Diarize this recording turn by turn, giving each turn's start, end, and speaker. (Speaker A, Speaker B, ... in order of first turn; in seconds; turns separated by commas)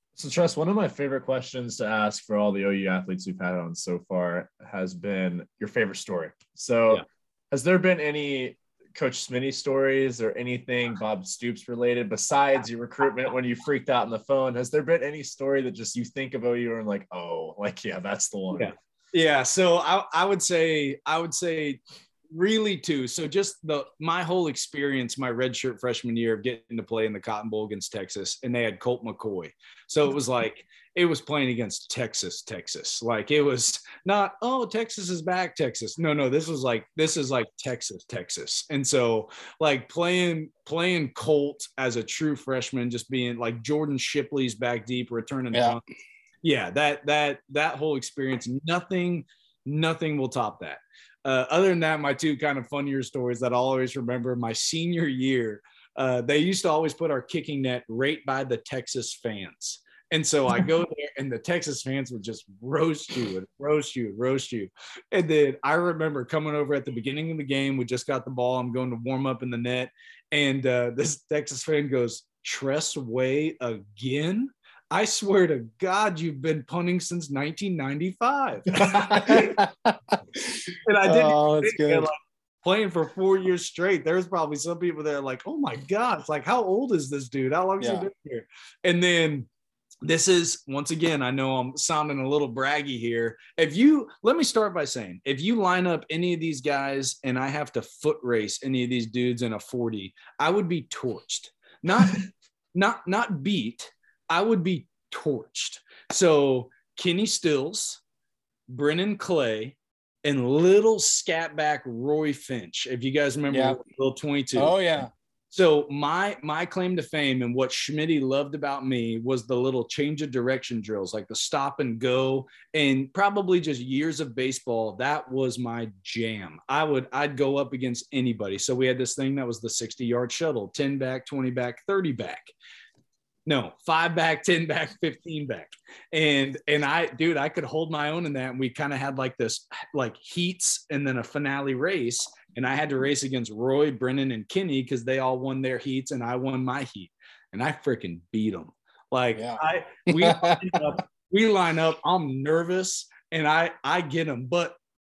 Speaker A: 0.2-18.7, Speaker B: 18.5-45.8, Speaker C: 45.5-45.8, Speaker B: 46.4-79.6, Speaker A: 78.7-79.4, Speaker C: 79.1-80.0, Speaker C: 80.5-82.1, Speaker B: 80.9-89.5, Speaker C: 87.8-88.1, Speaker B: 90.0-108.0, Speaker B: 108.7-114.8, Speaker C: 113.5-113.8, Speaker C: 114.6-115.1, Speaker B: 115.5-132.5, Speaker B: 133.5-154.8, Speaker C: 149.3-150.7